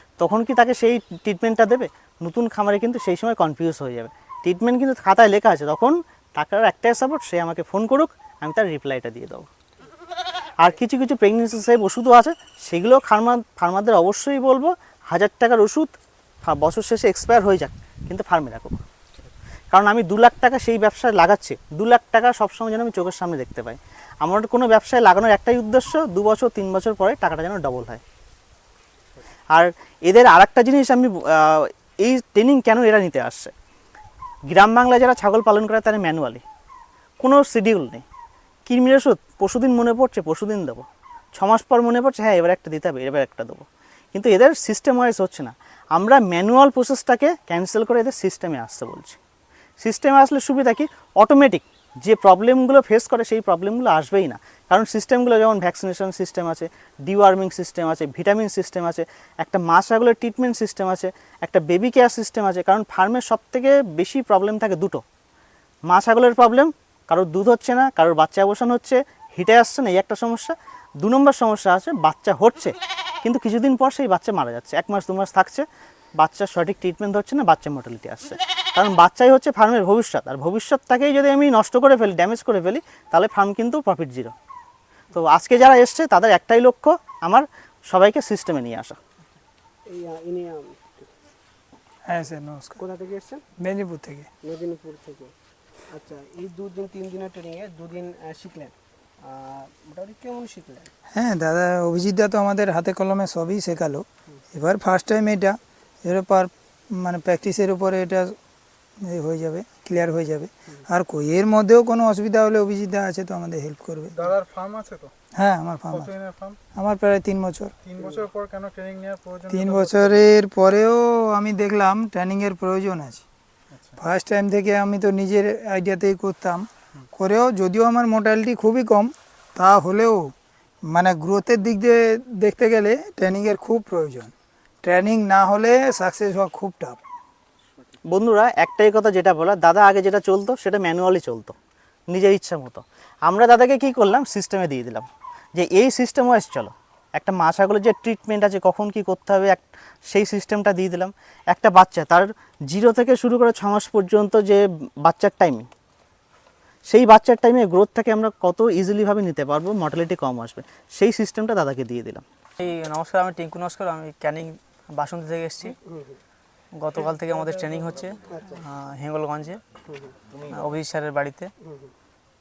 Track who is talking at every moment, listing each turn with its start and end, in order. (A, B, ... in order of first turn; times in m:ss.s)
0:00.2-0:09.5 A
0:10.6-0:15.9 A
0:16.4-0:18.8 A
0:19.7-0:28.0 A
0:29.5-0:33.5 A
0:34.5-0:36.4 A
0:37.2-0:38.0 A
0:38.7-0:40.8 A
0:41.4-0:49.2 A
0:49.8-1:05.0 A
1:05.9-1:15.6 A
1:16.2-1:24.3 A
1:25.1-1:29.0 A
1:29.9-1:31.1 B
1:32.0-1:32.8 C
1:32.8-1:33.4 B
1:33.6-1:34.3 C
1:34.4-1:35.3 B
1:35.9-1:40.9 B
1:41.1-1:48.4 C
1:49.0-1:54.2 C
1:54.1-1:55.1 D
1:55.3-1:56.1 C
1:55.9-1:56.6 D
1:56.7-1:57.7 C
1:57.8-2:00.3 D
1:59.5-2:03.2 C
2:03.7-2:04.0 D
2:04.0-2:10.3 C
2:10.9-2:17.0 C
2:18.1-2:21.5 A
2:22.1-2:35.6 A
2:36.9-2:42.2 A
2:42.6-2:45.8 E
2:45.8-2:46.2 B
2:46.7-2:49.6 E
2:48.3-2:48.6 B
2:50.5-2:51.5 E
2:51.6-2:51.9 B